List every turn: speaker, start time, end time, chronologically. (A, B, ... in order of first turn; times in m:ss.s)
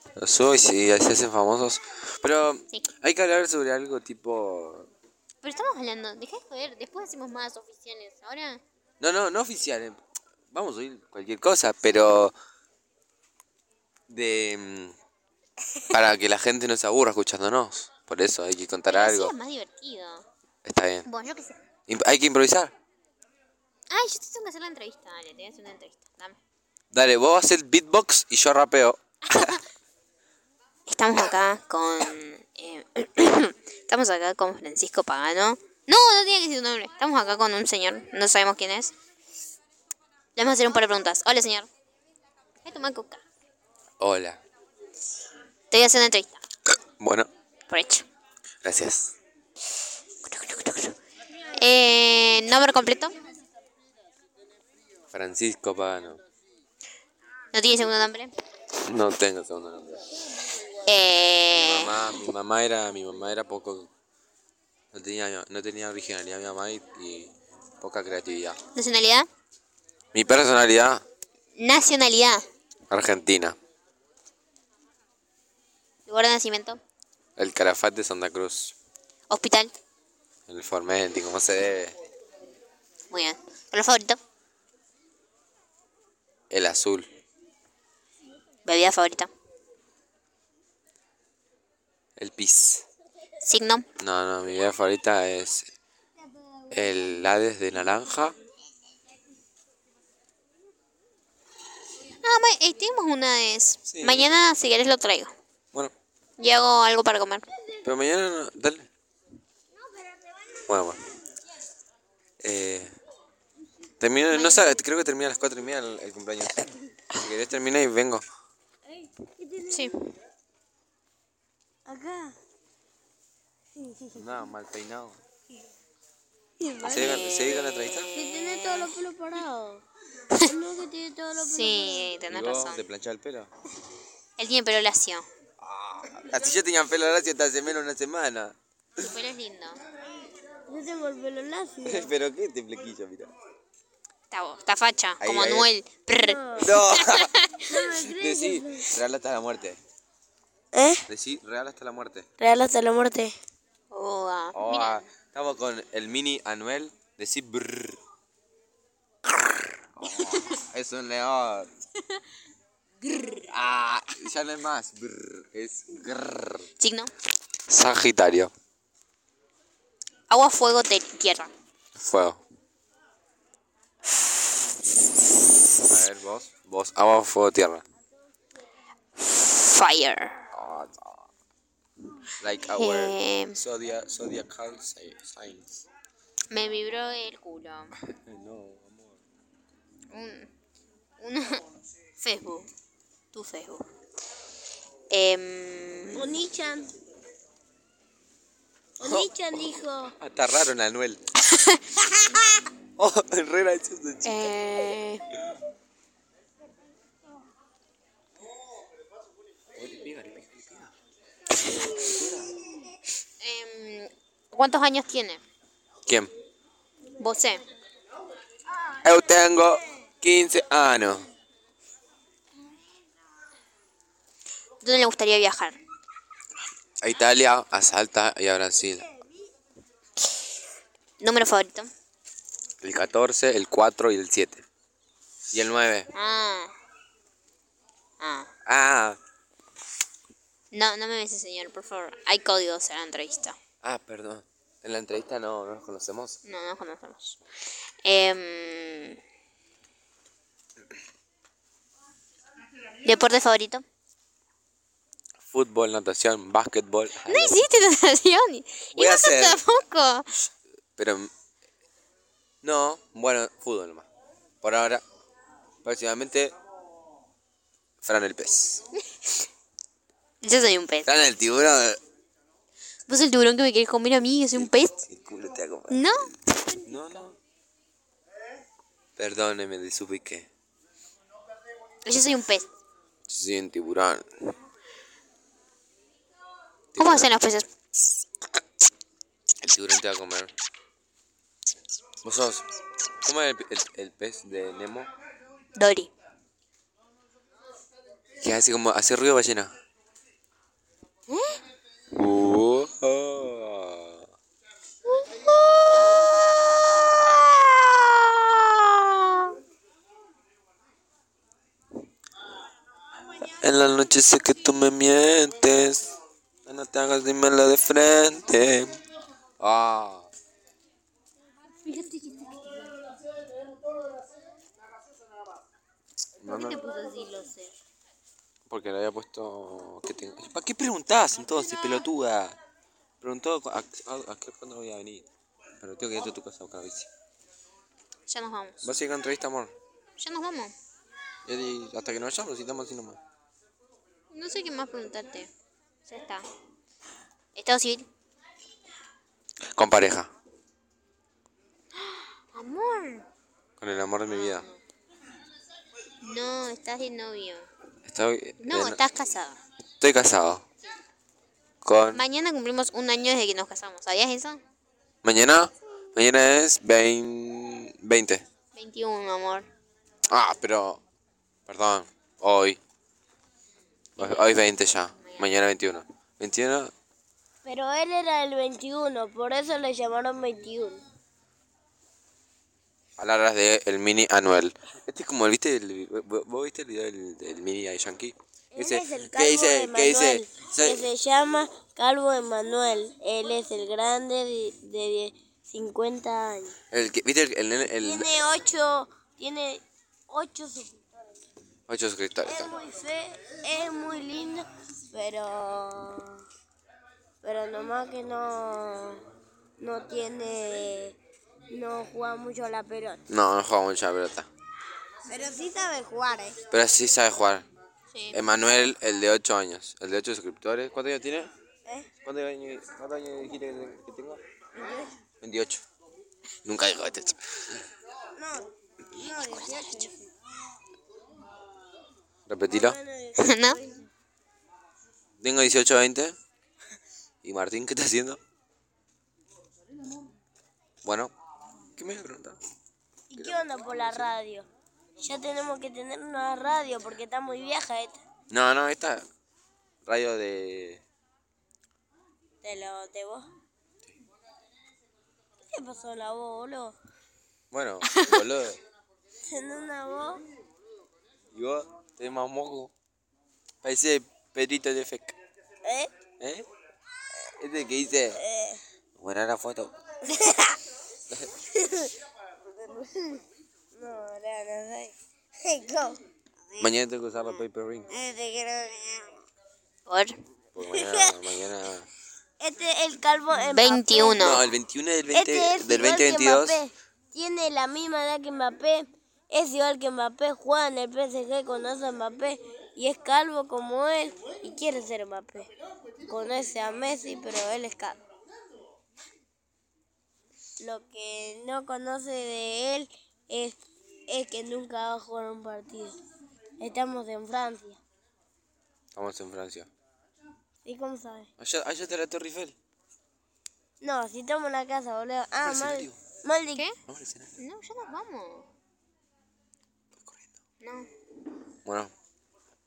0:00.2-0:04.9 A
0:05.4-0:08.6 B
0:09.0-0:10.0 A
0:10.5-0:12.3 A
0:14.1-0:15.0 A
0:15.9-0:19.3 A
0:18.9-0:20.2 B
0:20.6-0:21.1 A
0:21.0-0:21.6 B
0:21.9-0:22.7 A
0:23.9-0:26.4 B
0:26.9-0:29.5 A
0:29.3-0:29.6 B
0:30.9-0:38.9 B
0:40.4-0:41.7 B
0:42.6-0:43.2 B
0:44.0-0:44.4 A
0:45.7-0:46.4 B
0:47.0-0:47.3 A
0:47.7-0:48.0 B
0:48.6-0:49.1 A
0:50.2-0:51.0 B
0:51.5-0:53.2 B
0:55.1-0:56.2 A
0:57.5-0:58.3 B
0:58.8-1:00.0 A
1:00.8-1:02.3 B
1:01.5-1:03.9 A
1:04.9-1:08.6 A
1:08.7-1:09.3 B
1:10.1-1:11.0 A
1:11.6-1:12.4 B
1:12.9-1:13.6 A
1:16.1-1:16.8 B
1:17.4-1:18.7 A
1:19.3-1:19.7 B
1:20.5-1:21.9 A
1:23.1-1:24.2 B
1:26.5-1:27.1 A
1:28.6-1:29.3 B
1:32.2-1:32.8 A
1:33.4-1:33.8 B
1:34.0-1:35.7 A
1:36.7-1:38.4 A
1:42.2-1:45.3 B
1:43.8-1:44.3 A
1:46.4-1:47.4 B
1:47.8-1:48.9 A
1:49.9-1:50.4 C
1:50.7-1:51.0 A
1:52.4-1:52.9 A
1:54.0-1:58.2 A
1:54.3-1:54.8 B
1:58.9-1:59.9 C
1:59.7-2:00.0 B
2:01.9-2:02.3 C
2:03.8-2:04.1 C
2:04.1-2:05.2 A
2:06.6-2:07.4 C
2:06.8-2:08.1 A
2:07.0-2:09.0 B
2:08.1-2:09.8 C
2:10.4-2:12.1 C
2:11.4-2:12.8 B
2:12.3-2:13.5 A
2:14.4-2:15.2 B
2:15.6-2:18.6 A
2:19.0-2:19.8 B
2:20.7-2:22.1 C
2:21.8-2:23.3 A
2:24.3-2:28.0 B
2:25.2-2:25.7 A
2:26.2-2:26.7 C
2:26.6-2:27.3 A
2:27.6-2:28.9 C
2:28.0-2:29.8 A
2:30.7-2:31.0 C
2:31.1-2:32.2 A
2:32.4-2:33.3 C
2:33.9-2:34.9 B
2:34.5-2:38.0 A
2:40.0-2:41.7 A
2:43.1-2:46.7 A
2:46.8-2:47.1 B
2:47.7-2:48.5 A
2:50.3-2:51.5 B
2:52.0-2:52.4 A
2:55.8-2:57.8 A
2:59.2-3:00.4 B
3:00.5-3:01.3 A
3:02.4-3:05.8 A
3:02.7-3:03.6 B
3:06.5-3:07.9 B
3:08.1-3:09.2 A
3:10.1-3:10.5 B
3:11.2-3:11.6 B
3:12.2-3:12.7 B
3:13.3-3:13.8 B
3:15.1-3:16.3 B
3:16.1-3:16.9 C
3:19.0-3:20.1 C
3:19.0-3:21.2 A
3:21.5-3:21.8 B
3:23.0-3:24.6 A
3:24.2-3:25.3 B
3:29.8-3:30.9 A
3:31.7-3:32.5 A
3:33.4-3:35.4 B
3:36.0-3:36.3 A
3:37.2-3:37.6 B
3:39.0-3:41.2 A
3:44.8-3:45.8 B
3:47.0-3:49.1 A
3:51.2-3:51.9 B
3:52.8-3:54.6 A
3:55.5-3:56.1 A
3:56.1-3:56.7 B
3:58.2-3:58.5 B
3:58.6-3:59.2 A
4:00.7-4:03.6 B
4:03.8-4:06.4 A
4:06.4-4:07.4 B
4:08.0-4:09.2 B
4:13.0-4:13.8 B
4:15.4-4:17.6 A
4:17.2-4:20.4 B
4:18.9-4:19.6 A
4:21.0-4:21.3 A
4:22.6-4:24.1 A
4:24.6-4:25.0 A
4:25.8-4:26.5 A
4:28.0-4:28.8 A
4:29.0-4:29.5 B
4:30.4-4:31.1 B
4:31.0-4:32.0 A
4:33.1-4:35.0 B
4:34.5-4:36.1 A
4:35.9-4:37.2 B
4:36.8-4:37.4 A
4:39.2-4:40.5 A
4:42.0-4:42.7 B
4:43.3-4:44.3 A
4:46.9-4:47.3 A
4:47.0-4:47.7 B
4:49.6-4:50.5 A
4:52.2-4:52.6 A
4:53.2-4:55.1 A
4:55.8-4:56.1 B
4:58.4-4:59.7 A
5:01.3-5:01.6 B
5:02.1-5:04.2 A
5:05.1-5:09.5 B
5:13.6-5:19.0 A
5:19.6-5:20.3 A
5:21.8-5:23.1 B
5:26.4-5:26.8 A
5:26.4-5:27.7 B
5:28.7-5:32.6 A
5:33.2-5:35.2 A
5:35.8-5:37.1 A
5:38.3-5:38.8 B
5:38.8-5:39.7 A
5:40.2-5:40.7 B
5:41.4-5:43.2 A
5:44.3-5:45.5 B
5:46.0-5:46.5 B
5:47.5-5:48.0 B
5:49.8-5:50.3 A
5:52.0-5:53.3 B
5:53.8-5:54.7 A
5:56.2-5:57.7 B
5:58.0-5:59.0 A
5:58.6-5:59.6 B
6:00.0-6:00.6 A
6:01.8-6:02.2 A
6:02.1-6:04.6 B
6:05.2-6:08.4 A
6:08.7-6:09.7 B
6:10.3-6:11.0 A
6:11.7-6:12.8 A
6:14.2-6:15.5 B
6:14.2-6:16.9 A
6:17.6-6:21.0 C
6:23.2-6:31.1 A
6:28.7-6:36.7 C
6:36.9-6:38.4 A
6:38.0-6:41.0 C
6:41.9-6:42.7 A
6:42.4-6:46.4 C
6:47.4-6:49.2 C
6:49.8-6:53.2 C
6:53.3-6:54.5 A
6:55.3-6:56.6 C
6:56.7-6:57.6 A
6:58.1-6:58.4 B
6:58.3-7:01.5 A
7:02.2-7:04.4 A
7:04.8-7:05.1 C
7:05.4-7:05.8 A
7:06.6-7:07.4 A
7:08.4-7:10.3 C
7:09.3-7:10.1 B
7:12.5-7:13.0 A
7:12.7-7:14.1 C
7:13.4-7:13.8 B
7:15.4-7:16.4 A
7:17.4-7:18.4 A
7:21.0-7:21.3 A
7:22.0-7:22.6 A
7:23.3-7:24.7 C
7:23.3-7:24.3 A
7:25.2-7:28.2 C
7:28.5-7:29.2 A
7:30.0-7:31.0 A
7:32.6-7:33.5 C
7:35.7-7:37.0 C
7:37.7-7:38.8 A
7:38.0-7:38.4 B
7:39.5-7:40.4 C
7:41.5-7:42.9 A
7:43.8-7:45.4 A
7:45.8-7:46.1 C
7:46.4-7:46.6 A
7:47.5-7:48.4 A
7:48.4-7:48.8 C
7:49.2-7:49.9 A
7:50.3-7:50.8 C
7:51.3-7:51.6 A
7:51.7-7:52.1 C
7:52.8-7:53.4 C
7:54.0-7:56.2 C
7:56.8-7:58.1 A
7:58.1-7:59.4 C
8:00.1-8:00.4 B
8:00.7-8:02.1 A
8:00.9-8:01.4 C
8:02.6-8:04.7 C
8:03.7-8:04.6 B
8:04.3-8:06.8 A
8:05.3-8:15.7 C
8:16.2-8:18.2 C
8:20.8-8:26.2 C
8:26.8-8:28.0 C
8:29.1-8:29.9 A
8:30.8-8:31.5 C
8:31.6-8:32.8 A
8:34.0-8:36.8 C
8:35.6-8:36.2 A
8:37.1-8:37.6 A
8:37.6-8:38.7 B
8:40.2-8:40.5 A
8:40.8-8:41.1 B
8:41.8-8:42.1 A